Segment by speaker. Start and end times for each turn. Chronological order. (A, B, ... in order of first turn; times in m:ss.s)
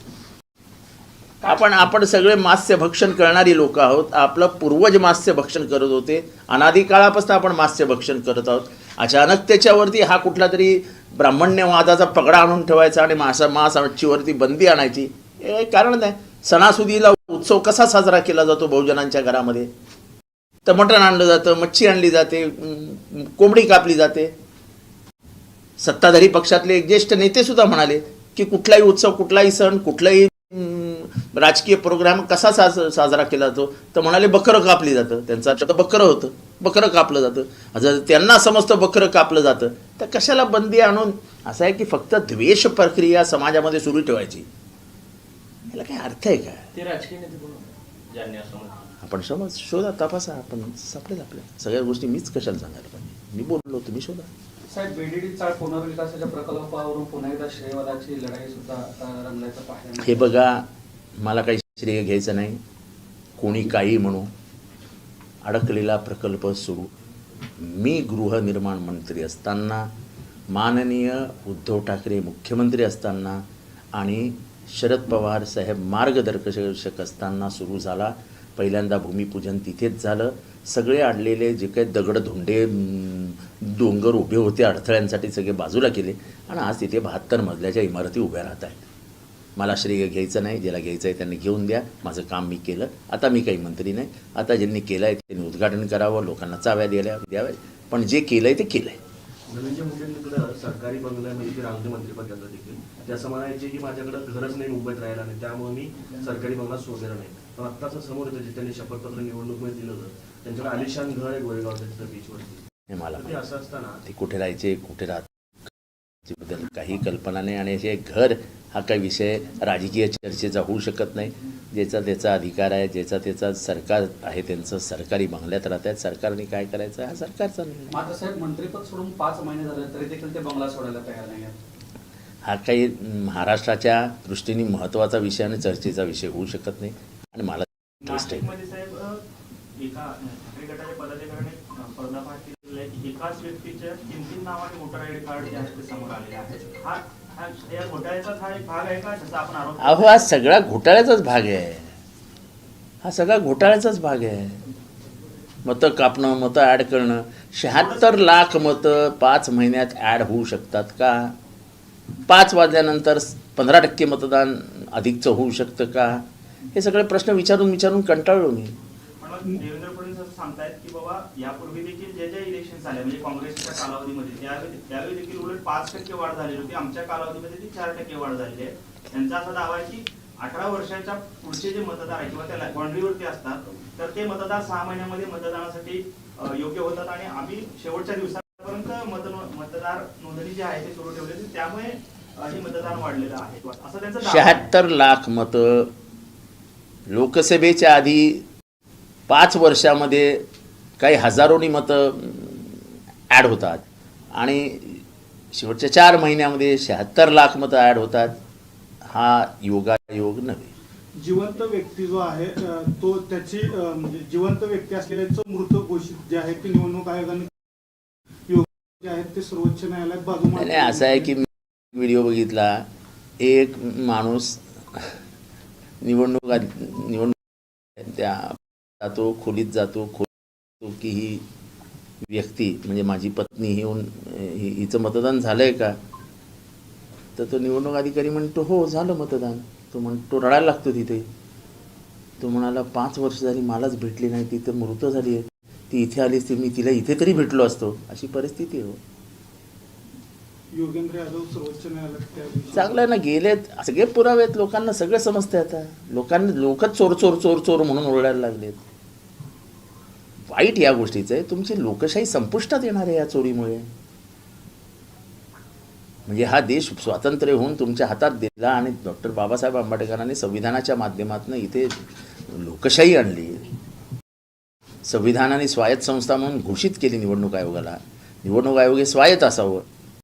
0:01.4-0:19.7 A
0:20.6-0:24.3 A
0:25.8-0:44.5 A
0:45.7-0:46.7 A
0:46.7-0:48.9 B
0:49.0-0:54.3 A
0:54.7-1:00.3 C
1:00.0-1:00.7 A
1:01.2-1:02.6 A
1:03.4-1:04.3 A
1:05.4-1:06.9 A
1:07.6-1:09.9 A
1:10.5-1:13.4 A
1:13.9-1:28.9 A
1:29.6-1:39.0 A
1:39.5-1:52.6 D
1:52.9-1:53.3 A
1:53.2-1:54.0 D
1:54.0-1:55.3 A
1:56.2-2:08.0 A
2:07.9-2:11.5 C
2:12.4-2:18.5 A
2:18.0-2:19.2 E
2:19.8-2:30.3 E
2:29.8-2:31.9 A
2:33.0-2:34.6 A
2:35.6-2:41.3 A
2:37.7-2:38.2 E
2:42.3-2:48.8 A
2:49.2-3:14.7 E
3:14.2-3:15.9 A
3:17.1-3:18.4 A
3:19.3-3:20.4 A
3:21.0-3:28.4 A
3:29.0-3:30.7 A
3:31.2-3:37.5 F
3:38.5-3:41.3 F
3:40.5-3:42.9 A
3:43.4-3:45.2 A
3:46.0-3:47.4 A
3:48.0-3:50.3 A
3:50.8-3:51.4 A
3:52.2-3:56.0 A
3:57.4-4:01.3 A
4:02.4-4:09.0 A
4:10.7-4:13.1 F
4:12.7-4:18.8 A
4:20.5-4:23.9 A
4:26.3-4:33.7 A
4:35.0-4:39.9 A